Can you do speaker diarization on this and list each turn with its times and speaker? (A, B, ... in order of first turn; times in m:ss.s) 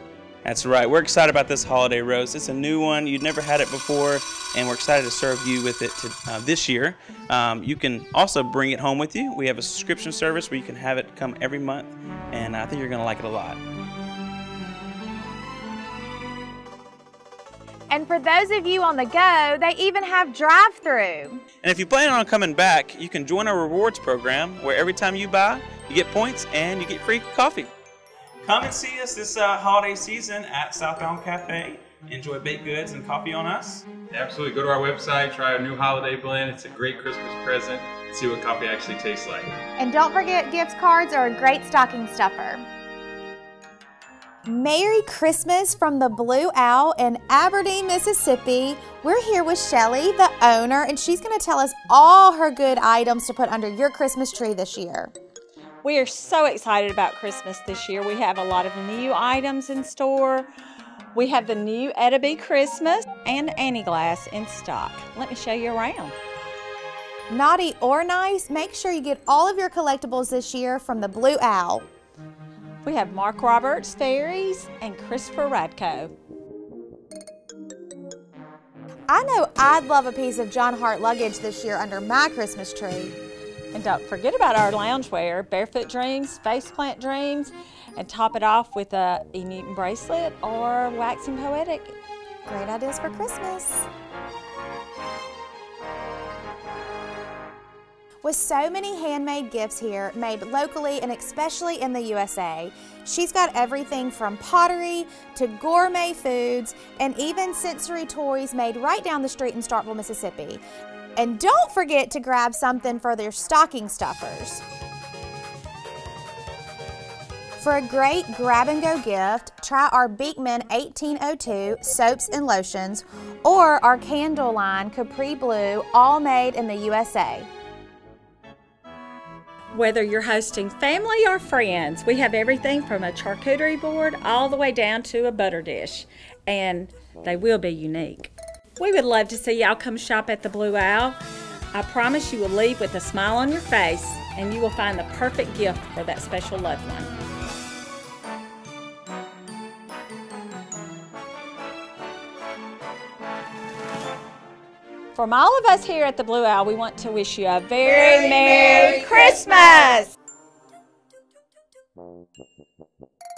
0:00.4-0:13.6 A
0:17.9-0:21.4 B
0:21.6-0:27.7 A
0:28.4-0:33.9 A
0:34.1-0:39.5 C
0:39.8-0:42.6 B
0:44.5-0:55.1 B
0:55.8-1:00.5 D
1:01.1-1:06.2 D
1:07.3-1:11.9 B
1:12.8-1:16.1 D
1:19.1-1:23.2 B
1:23.7-1:32.0 D
1:32.5-1:33.9 B
1:38.2-1:50.6 B
1:51.2-1:54.6 B
1:57.6-2:07.5 B
2:09.7-2:21.2 D
2:21.7-2:27.1 D
2:35.2-2:40.1 D